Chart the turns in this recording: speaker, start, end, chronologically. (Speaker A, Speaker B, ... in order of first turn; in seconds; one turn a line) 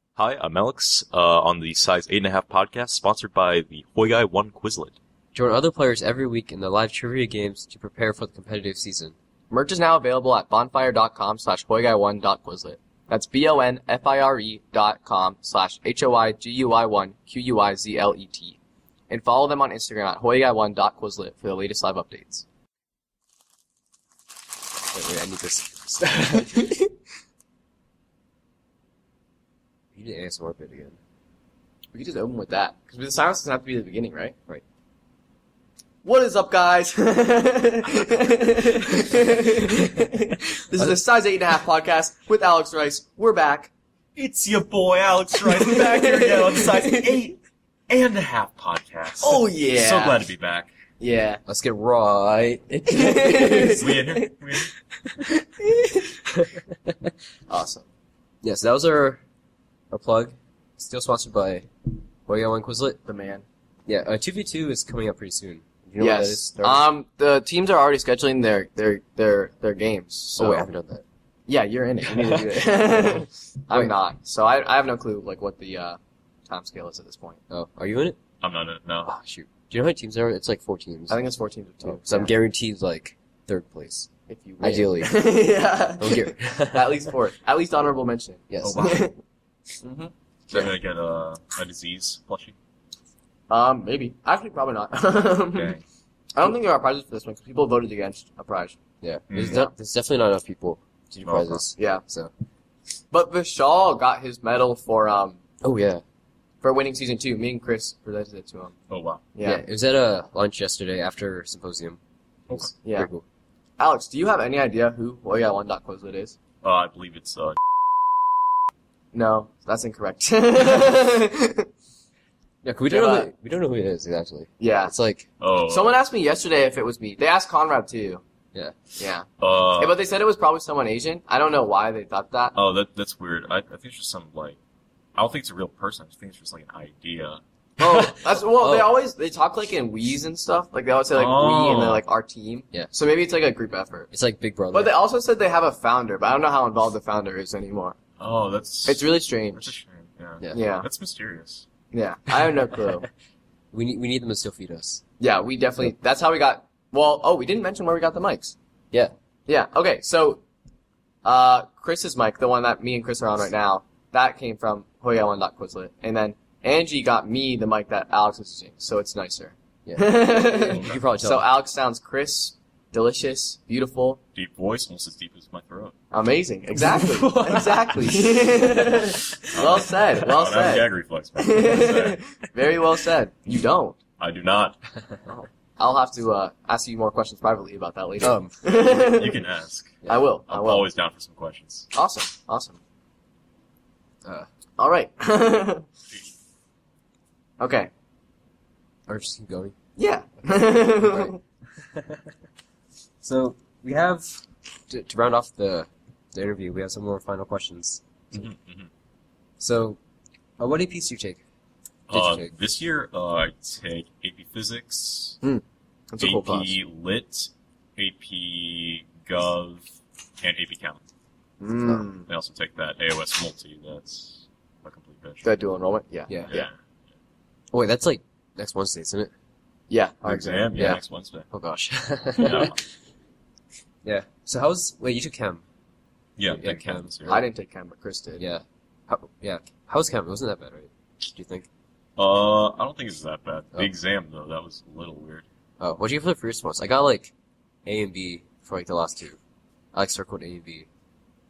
Speaker A: 0.2-5.0
Speaker B: 5.3-9.2
Speaker C: 9.5-18.6
Speaker C: 19.1-22.4
Speaker B: 24.9-26.8
Speaker B: 29.9-31.0
Speaker C: 31.9-34.3
Speaker C: 36.0-43.7
Speaker A: 44.2-50.7
Speaker C: 45.4-47.2
Speaker C: 49.2-50.2
Speaker C: 51.0-51.4
Speaker B: 51.5-53.8
Speaker C: 52.9-54.3
Speaker A: 53.7-54.7
Speaker C: 55.6-56.0
Speaker B: 56.1-57.1
Speaker C: 57.5-57.9
Speaker B: 58.4-59.2
Speaker B: 59.9-61.7
Speaker B: 62.3-63.0
Speaker C: 63.1-63.4
Speaker B: 63.9-66.8
Speaker C: 66.0-70.7
Speaker B: 70.4-71.0
Speaker C: 71.5-77.4
Speaker B: 72.1-73.1
Speaker B: 77.5-78.2
Speaker A: 78.4-79.1
Speaker B: 79.1-81.2
Speaker C: 81.1-82.3
Speaker B: 81.8-84.1
Speaker C: 84.3-89.2
Speaker B: 84.6-85.3
Speaker B: 86.0-87.1
Speaker B: 88.5-88.9
Speaker A: 88.6-89.1
Speaker C: 89.8-90.1
Speaker A: 90.5-92.6
Speaker C: 93.5-95.8
Speaker A: 95.5-95.8
Speaker C: 96.3-98.8
Speaker B: 99.0-102.3
Speaker A: 99.3-99.6
Speaker C: 99.5-99.7
Speaker A: 101.2-101.6
Speaker C: 101.8-102.0
Speaker C: 103.1-105.4
Speaker B: 105.6-106.0
Speaker C: 106.6-108.7
Speaker A: 108.9-109.2
Speaker C: 109.3-109.6
Speaker B: 109.4-112.0
Speaker B: 112.5-113.2
Speaker C: 112.8-113.1
Speaker C: 113.8-116.4
Speaker A: 116.6-117.6
Speaker C: 119.1-121.7
Speaker B: 122.6-125.3
Speaker C: 122.9-123.3
Speaker C: 124.6-124.9
Speaker A: 125.4-126.0
Speaker C: 125.7-128.2
Speaker C: 129.0-132.6
Speaker A: 129.4-130.0
Speaker A: 132.5-134.6
Speaker A: 135.2-137.4
Speaker C: 137.8-144.1
Speaker B: 137.8-138.9
Speaker A: 141.1-142.1
Speaker B: 144.1-144.9
Speaker C: 144.7-148.0
Speaker A: 148.2-151.7
Speaker C: 148.9-149.7
Speaker C: 150.5-150.9
Speaker C: 151.9-153.1
Speaker B: 153.7-155.0
Speaker C: 155.2-158.5
Speaker C: 159.5-160.4
Speaker C: 161.2-174.2
Speaker B: 169.9-171.4
Speaker A: 170.7-171.0
Speaker A: 174.3-175.9
Speaker C: 176.1-184.0
Speaker B: 176.8-179.5
Speaker A: 179.5-182.2
Speaker A: 184.2-184.8
Speaker C: 185.3-189.4
Speaker B: 188.2-188.5
Speaker A: 188.7-191.9
Speaker C: 190.1-190.9
Speaker C: 191.9-192.8
Speaker C: 194.8-195.9
Speaker A: 196.1-196.3
Speaker C: 197.6-197.9
Speaker B: 199.1-199.8
Speaker C: 200.0-201.4
Speaker B: 201.0-202.3
Speaker B: 203.2-208.4
Speaker A: 208.3-208.9
Speaker B: 209.6-210.0
Speaker B: 210.6-211.4
Speaker A: 212.1-215.4
Speaker B: 212.1-212.5
Speaker C: 215.4-216.7
Speaker A: 216.2-219.9
Speaker A: 220.4-221.0
Speaker C: 221.6-222.3
Speaker A: 222.3-225.4
Speaker C: 225.4-226.7
Speaker B: 226.3-226.5
Speaker A: 226.5-226.7
Speaker B: 227.7-229.3
Speaker C: 229.9-231.0
Speaker A: 230.2-231.5
Speaker B: 230.8-232.8
Speaker A: 232.4-232.8
Speaker B: 234.1-235.6
Speaker A: 236.4-237.4
Speaker B: 236.5-237.4
Speaker C: 237.3-238.4
Speaker B: 238.4-241.7
Speaker A: 242.2-245.4
Speaker B: 245.8-247.3
Speaker B: 247.9-249.4
Speaker B: 249.9-250.9